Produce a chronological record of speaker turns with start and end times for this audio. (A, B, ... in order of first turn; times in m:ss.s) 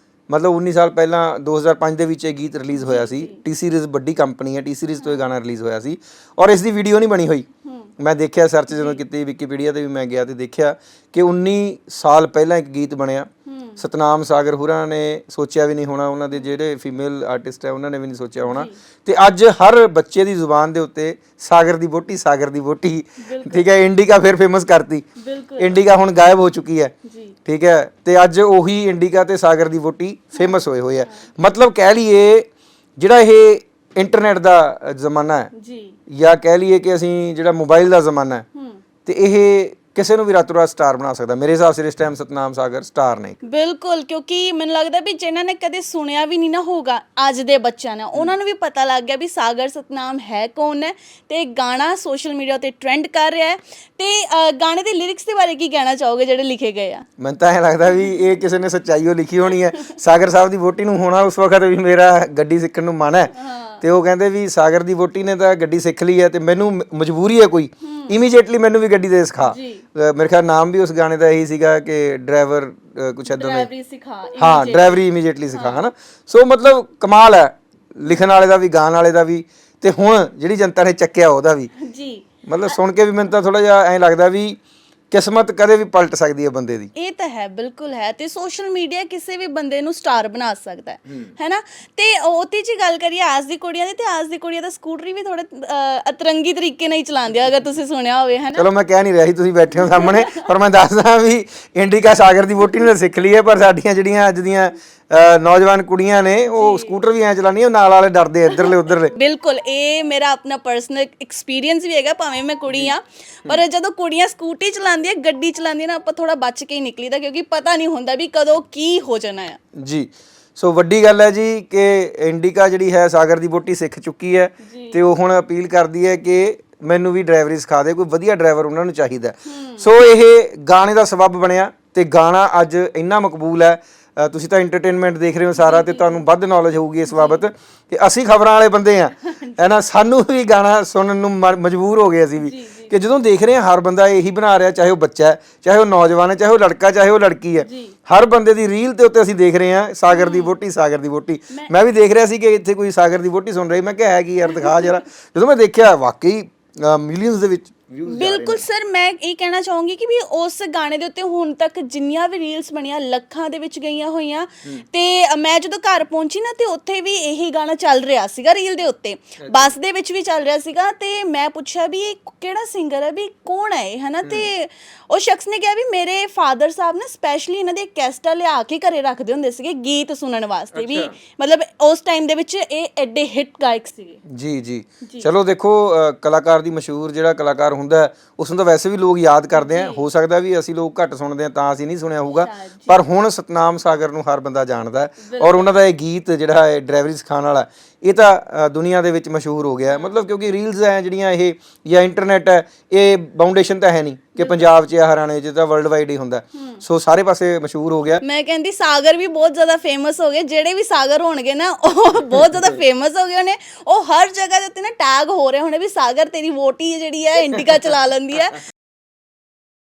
0:00.3-0:07.5 A
0:02.8-0:03.4 B
0:08.0-0:25.1 A
0:08.7-0:09.0 B
0:13.5-0:13.8 B
0:18.4-0:18.8 B
0:23.2-0:23.7 B
0:25.2-0:25.8 B
0:25.6-0:26.9 A
0:27.0-0:27.4 B
0:27.5-0:35.5 A
0:30.4-0:31.3 B
0:35.6-0:36.0 B
0:36.1-0:38.4 A
0:38.6-0:38.8 B
0:39.1-0:43.4 A
0:43.4-0:57.1 B
0:57.2-1:13.7 A
1:03.3-1:03.8 B
1:07.8-1:08.1 B
1:09.4-1:09.8 B
1:13.3-1:15.0 B
1:14.4-1:21.7 A
1:15.5-1:15.8 B
1:21.8-1:22.8 B
1:22.5-1:24.6 A
1:25.1-1:26.9 A
1:27.0-1:38.7 B
1:38.6-1:49.1 A
1:39.8-1:40.4 B
1:46.5-1:47.0 B
1:48.6-1:59.6 B
1:59.7-2:38.6 A
2:04.6-2:05.0 B
2:09.5-2:09.9 B
2:15.6-2:16.2 B
2:17.1-2:17.5 B
2:19.2-2:19.7 B
2:22.4-2:23.0 B
2:27.6-2:28.0 B
2:30.1-2:30.6 B
2:34.6-2:34.9 B
2:38.1-3:04.2 B
2:49.4-2:49.7 A
3:00.7-3:01.1 A
3:04.3-3:28.2 A
3:05.0-3:05.3 B
3:09.5-3:10.1 B
3:12.2-3:13.0 B
3:15.2-3:15.8 B
3:19.9-3:20.2 B
3:24.4-3:24.7 B
3:26.6-3:26.8 B
3:28.2-3:38.6 B